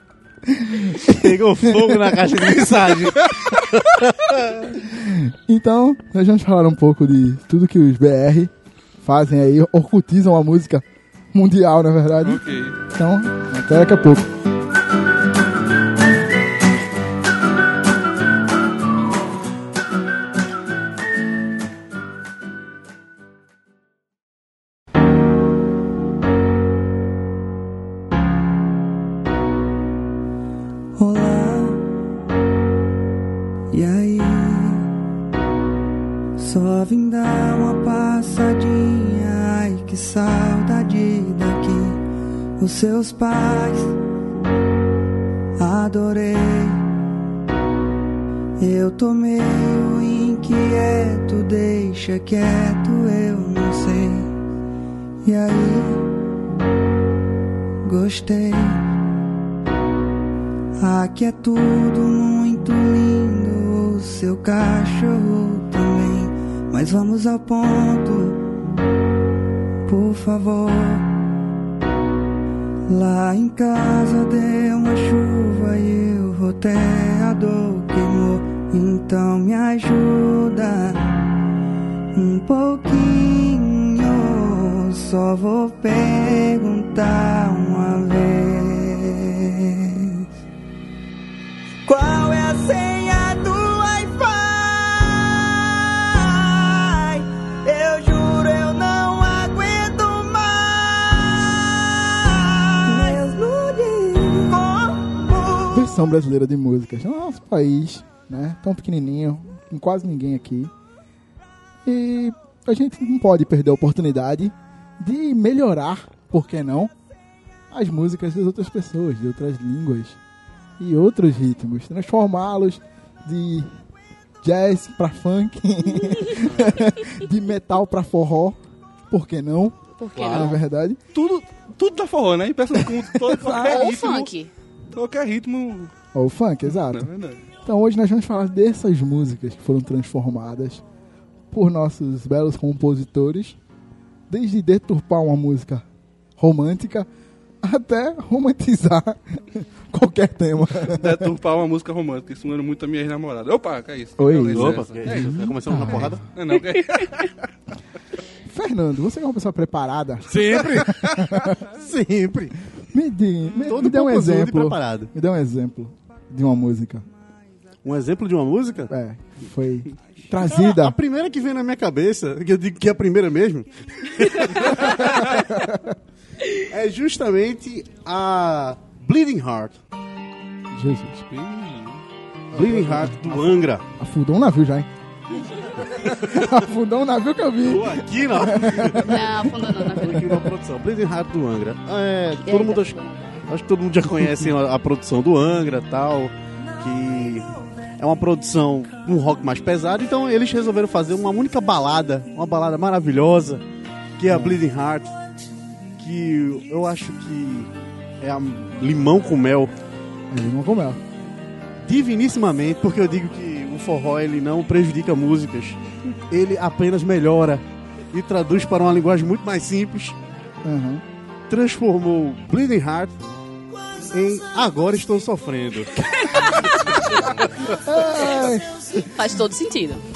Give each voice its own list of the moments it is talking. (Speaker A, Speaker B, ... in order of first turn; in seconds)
Speaker A: 0.4-2.5, 4.7-8.5, 9.0-14.3, 105.7-110.7, 111.8-116.9, 117.7-120.2, 120.8-123.7, 124.4-128.6, 129.1-131.0, 132.8-134.0, 136.1-137.1, 137.6-140.8, 141.5-143.6, 144.3-145.8, 146.4-147.1, 147.6-151.3, 154.2-156.2, 158.5-161.6, 162.9-167.1, 168.9-171.0, 174.8-175.9, 180.7-181.2, 182.5-183.4, 184.0-184.9, 185.6-190.5, 204.3-204.6, 210.3-211.0, 220.6-221.0, 227.6-228.7
Speaker B: 1.0-4.7, 130.2-130.5, 154.5-156.2, 160.3-161.0, 161.7-162.6, 163.6-165.1, 167.8-168.9, 170.4-175.3, 176.5-179.8, 182.5-183.8, 186.0-186.5, 187.7-203.6, 204.2-205.1, 206.0-207.7, 208.2-209.7, 211.8-220.2, 221.5-223.2, 224.1-228.4
Speaker C: 12.2-12.8, 126.4-126.7, 131.1-134.3, 134.9-135.9, 136.7-137.4, 150.9-157.4, 181.3-182.0
Speaker D: 30.9-31.8, 33.7-34.9, 36.4-42.0, 42.6-44.0, 45.6-46.8, 48.6-54.3, 55.2-56.0, 57.8-58.9, 60.8-68.4, 69.8-71.1, 72.9-81.2, 82.1-90.3, 91.8-105.8
Speaker E: 130.0-130.6, 133.5-134.5, 189.0-190.3, 192.4-193.2, 229.1-230.0